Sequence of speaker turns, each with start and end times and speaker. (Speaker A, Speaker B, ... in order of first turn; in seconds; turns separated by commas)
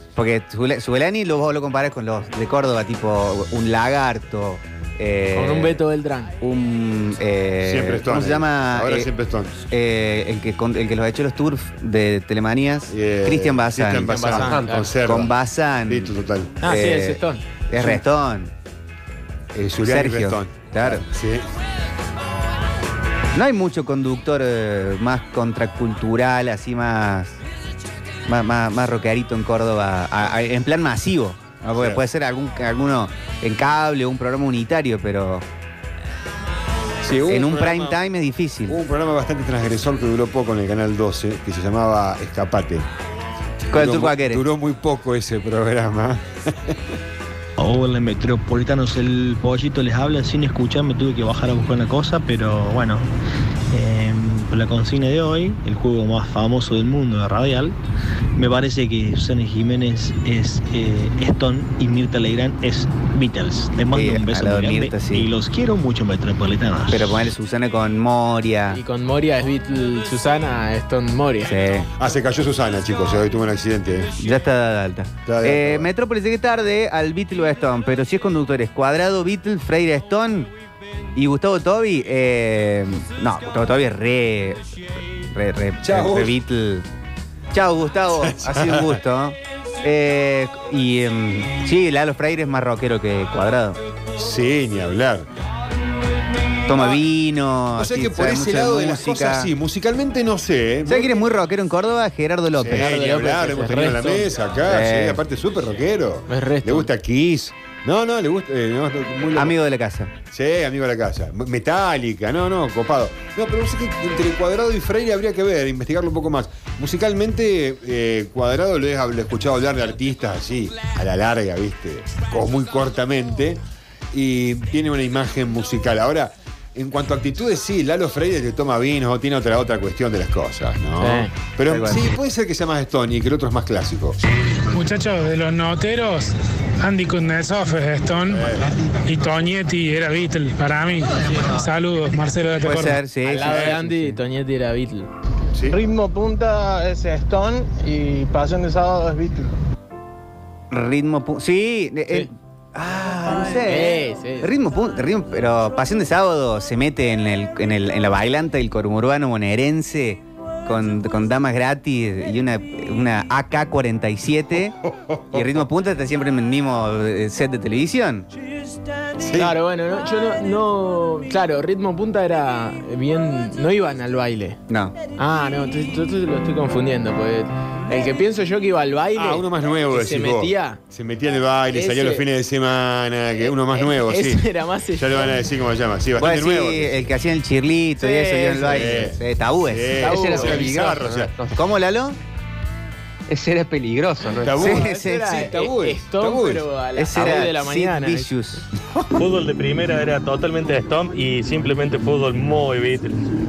Speaker A: 0.1-5.8, Speaker B: 5.3-6.3, Speaker A: 6.4-14.5, Speaker C: 7.6-9.5, Speaker C: 12.9-15.3, Speaker B: 14.1-14.9, Speaker D: 14.3-14.7, Speaker A: 15.0-16.1, Speaker C: 15.9-16.6, Speaker B: 16.6-18.0, Speaker A: 16.6-18.5, Speaker C: 19.5-21.5, Speaker A: 19.9-21.0, Speaker A: 23.3-27.4, Speaker A: 28.2-35.5, Speaker C: 31.8-32.0, Speaker C: 37.0-38.0, Speaker A: 37.3-38.8, Speaker C: 38.7-42.9, Speaker C: 43.7-46.8, Speaker A: 43.7-44.4, Speaker E: 47.6-53.1, Speaker E: 53.7-57.8, Speaker E: 58.4-67.1, Speaker A: 63.9-65.3, Speaker A: 66.9-68.8, Speaker B: 68.7-71.5, Speaker A: 71.5-71.9, Speaker C: 72.0-74.1, Speaker A: 74.2-80.5, Speaker C: 75.2-75.9, Speaker A: 81.1-84.6, Speaker A: 85.3-86.9, Speaker C: 85.8-86.4, Speaker A: 87.5-93.8, Speaker C: 88.2-89.0, Speaker C: 94.2-95.3, Speaker A: 96.7-99.5, Speaker C: 96.7-97.0, Speaker C: 97.8-101.2, Speaker A: 100.9-103.0, Speaker C: 102.6-109.5, Speaker B: 102.7-104.3, Speaker A: 104.7-105.2, Speaker B: 106.3-106.9, Speaker A: 109.3-110.1, Speaker C: 110.3-123.6, Speaker C: 124.1-134.2, Speaker B: 131.0-131.3, Speaker A: 131.7-132.1, Speaker F: 134.7-143.0, Speaker C: 138.3-138.8, Speaker A: 142.6-144.2, Speaker B: 143.2-145.1, Speaker C: 143.4-143.8, Speaker C: 145.5-145.8, Speaker G: 145.7-149.5, Speaker A: 150.7-164.8, Speaker B: 153.5-154.5, Speaker C: 164.5-165.7, Speaker A: 165.3-168.3, Speaker C: 169.2-169.5, Speaker B: 169.3-174.6, Speaker A: 174.7-174.9, Speaker B: 175.2-180.8, Speaker C: 179.2-184.4, Speaker B: 181.7-182.2, Speaker B: 183.7-185.4, Speaker C: 185.0-187.1, Speaker A: 186.2-190.0, Speaker B: 188.0-189.1, Speaker C: 188.7-191.3, Speaker B: 190.0-190.7, Speaker D: 190.0-191.6, Speaker A: 191.5-192.2, Speaker D: 193.3-194.7, Speaker C: 194.4-196.7, Speaker A: 194.6-195.4, Speaker B: 194.7-198.3, Speaker A: 197.0-198.6, Speaker H: 199.1-203.2